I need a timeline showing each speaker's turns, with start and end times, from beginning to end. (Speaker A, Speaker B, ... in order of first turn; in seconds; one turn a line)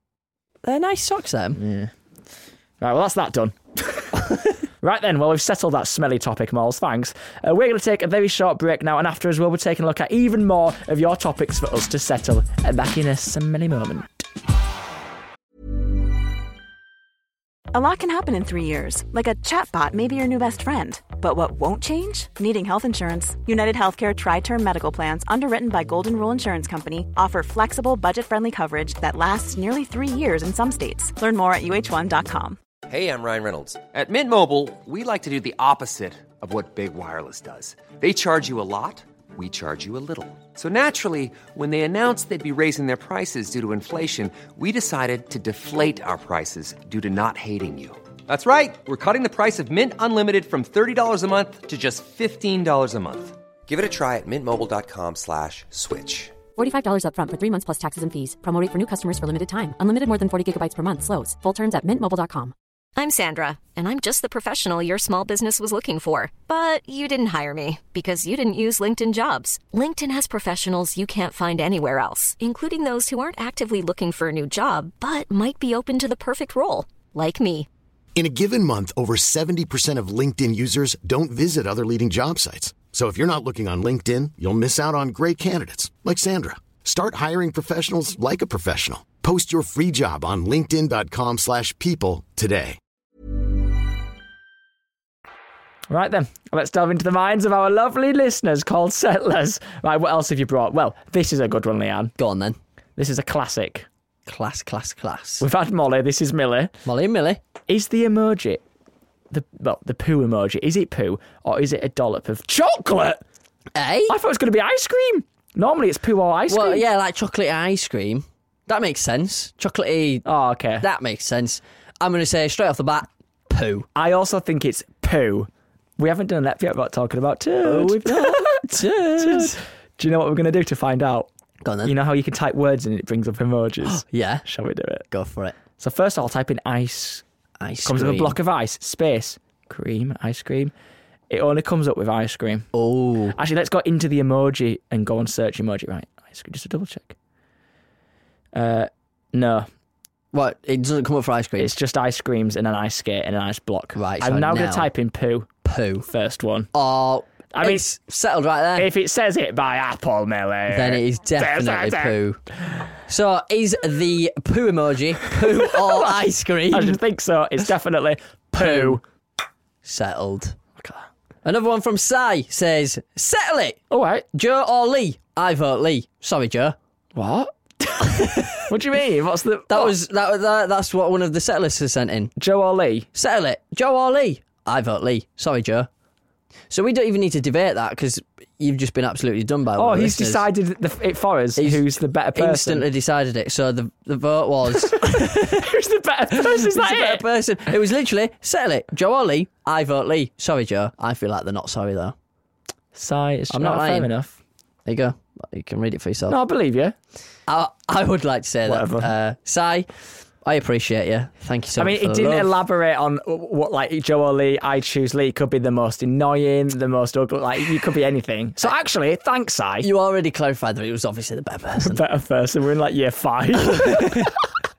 Speaker A: 0.6-1.6
Speaker B: 1.5-1.9
Speaker B: 2.8-14.1
Speaker C: 17.7-32.6
Speaker D: 32.9-56.4
Speaker E: 56.5-62.5
Speaker F: 63.0-77.7
Speaker G: 78.2-92.8
Speaker B: 95.9-102.1
Speaker A: 102.2-102.6
Speaker B: 103.0-103.9
Speaker A: 104.3-105.4
Speaker B: 105.4-106.7
Speaker A: 106.8-107.4
Speaker B: 107.7-108.6
Speaker B: 109.3-113.2
Speaker A: 113.7-114.2
Speaker B: 114.1-116.8
Speaker A: 116.5-120.2
Speaker B: 120.2-120.8
Speaker A: 120.8-123.9
Speaker B: 123.9-131.3
Speaker A: 127.6-129.6
Speaker A: 131.6-131.9
Speaker B: 131.8-135.0
Speaker A: 133.8-134.4
Speaker A: 135.1-135.5
Speaker B: 135.8-137.2
Speaker A: 137.6-138.4
Speaker B: 137.8-140.7
Speaker B: 141.3-142.7
Speaker A: 142.7-143.4
Speaker B: 143.3-147.1
Speaker B: 148.5-149.7
Speaker A: 150.3-151.7
Speaker B: 151.6-155.5
Speaker A: 153.9-154.9
Speaker A: 155.6-156.1
Speaker B: 156.1-156.7
Speaker A: 156.7-158.9
Speaker B: 157.5-157.8
Speaker B: 158.8-162.2
Speaker A: 160.7-162.4
Speaker A: 163.1-167.0
Speaker B: 165.6-166.2
Speaker B: 166.7-169.0
Speaker A: 168.5-169.0
Speaker A: 169.8-170.6
Speaker A: 171.4-173.8
Speaker B: 173.9-174.2
Speaker A: 174.3-176.8
Speaker B: 177.1-179.9
Speaker A: 178.0-178.6
Speaker A: 179.7-182.3
Speaker B: 182.4-183.1
Speaker A: 183.1-185.9
Speaker A: 186.7-190.4
Speaker B: 189.8-192.9
Speaker A: 191.6-195.7
Speaker B: 194.8-197.2
Speaker A: 196.3-202.1
Speaker B: 202.9-204.4
Speaker A: 203.5-204.1
Speaker A: 204.8-206.4
Speaker B: 206.3-206.9
Speaker A: 207.5-209.9
Speaker B: 208.7-209.1
Speaker A: 210.4-212.6
Speaker B: 211.8-219.9
Speaker A: 219.8-222.0
Speaker B: 221.8-224.3
Speaker A: 223.8-224.2